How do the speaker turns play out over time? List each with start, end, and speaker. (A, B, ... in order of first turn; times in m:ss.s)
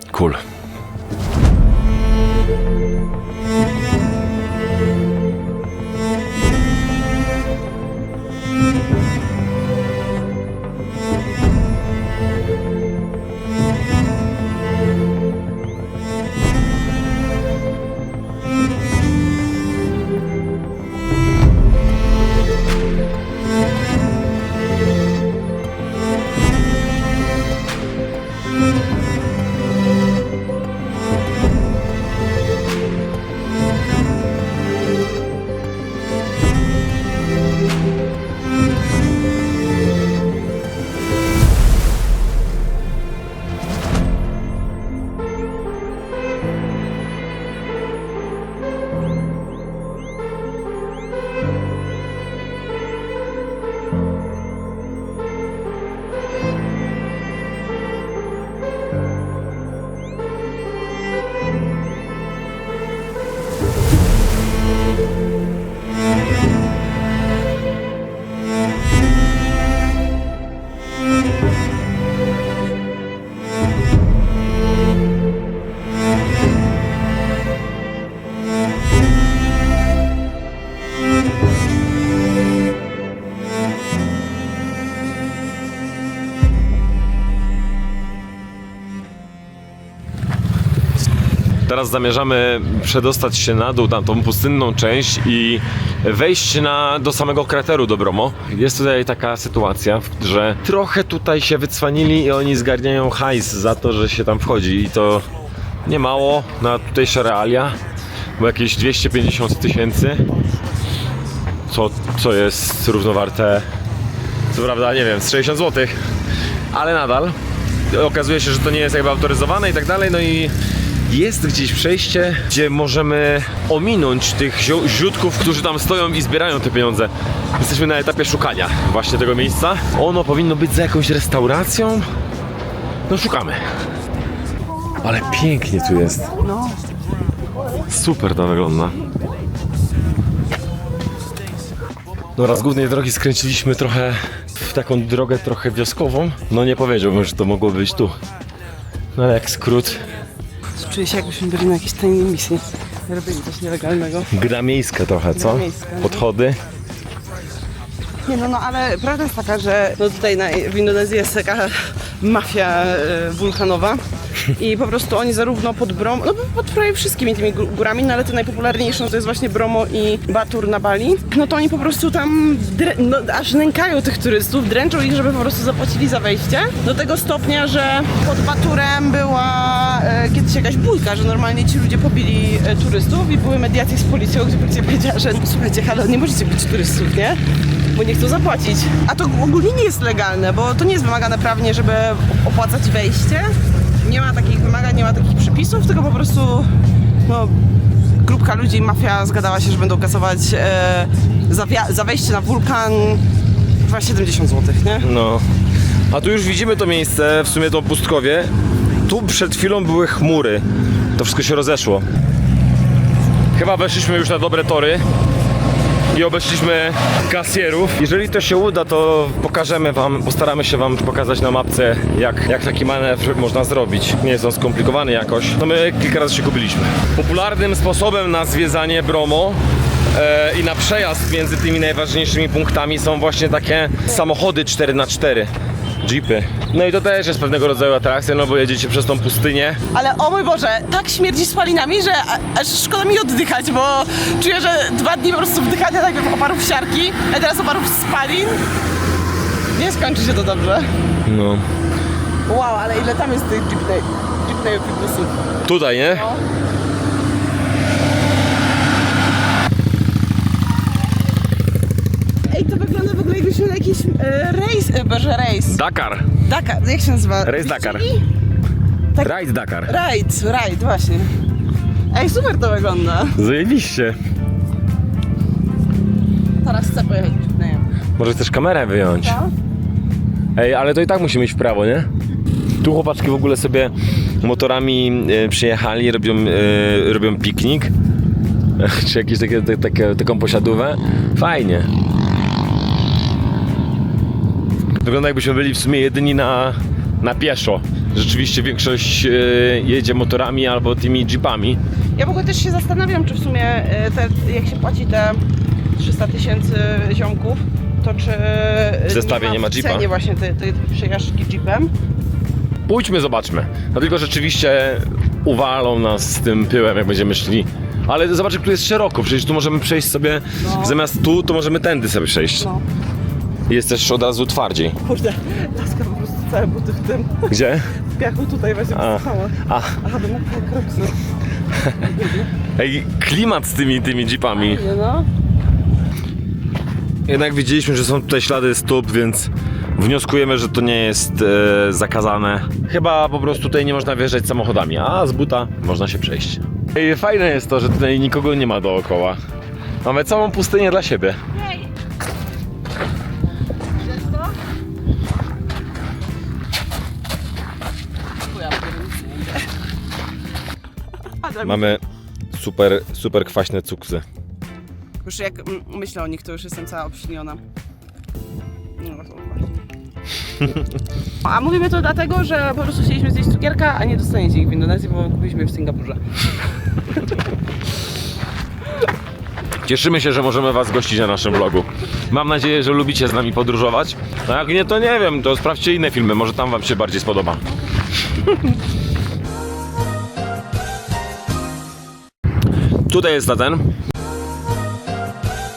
0:00.1-0:00.4 A
1:31.6-1:45.3 A
1:45.8-1:47.8 A
1:48.4-1:50.2 A
1:51.7-1:53.7 A
1:54.5-1:56.0 A
1:56.7-1:57.4 A
1:57.9-2:00.5 A
2:01.1-2:12.1 A
2:13.1-2:13.6 A
2:15.0-2:16.3 A
2:16.4-2:16.8 B
2:17.9-2:19.0 A
2:22.4-2:28.2 A
2:29.1-2:30.0 A
2:30.8-2:34.3 B
2:34.3-2:36.6 A
2:35.3-2:36.2 B
2:38.2-3:07.4 B
3:07.9-3:16.7 B
3:17.2-3:17.6 B
3:18.2-3:23.2 B
3:23.8-3:25.1 B
3:25.0-3:25.4 A
3:26.1-3:28.5 A
3:29.0-3:30.6 A
3:31.2-3:32.1 A
3:33.5-3:35.0 A
3:36.1-3:49.6 A
3:50.1-3:59.8 A
3:59.9-4:08.6 B
4:09.7-4:10.9 B
4:11.3-4:11.6 A
4:12.4-4:15.3 B
4:15.6-4:16.3 A
4:16.1-4:16.4 B
4:22.5-4:25.8 B
4:25.7-4:26.3 A
4:26.4-4:28.2 B
4:27.4-4:28.0 A
4:29.2-4:31.3 B
4:29.2-4:29.9 A
4:32.1-4:33.4 B
4:33.3-4:34.2 A
4:36.6-4:37.9 B
4:38.2-4:39.4 A
4:39.2-4:39.5 B
4:40.5-4:42.1 A
4:42.8-4:47.9 A
4:48.8-4:51.9 A
4:55.0-5:01.8 A
5:02.1-5:05.4 B
5:05.9-5:11.9 B
5:09.1-5:10.1 A
5:12.9-5:22.7 A
5:20.6-5:21.1 B
5:22.6-5:22.8 B
5:23.7-5:25.0 A
5:25.0-5:31.1 B
5:27.5-5:27.9 A
5:28.9-5:30.0 A
5:32.0-5:32.5 B
5:32.8-5:34.8 A
5:34.6-5:35.3 B
5:37.3-5:49.4 A
5:50.0-5:51.4 A
5:58.4-5:59.6 B
6:01.4-6:02.0 B
6:01.6-6:02.0 A
6:02.5-6:04.2 A
6:05.2-6:07.6 B
6:09.0-6:09.7 B
6:11.4-6:16.2 B
6:19.8-6:27.6 A
6:33.1-6:33.8 A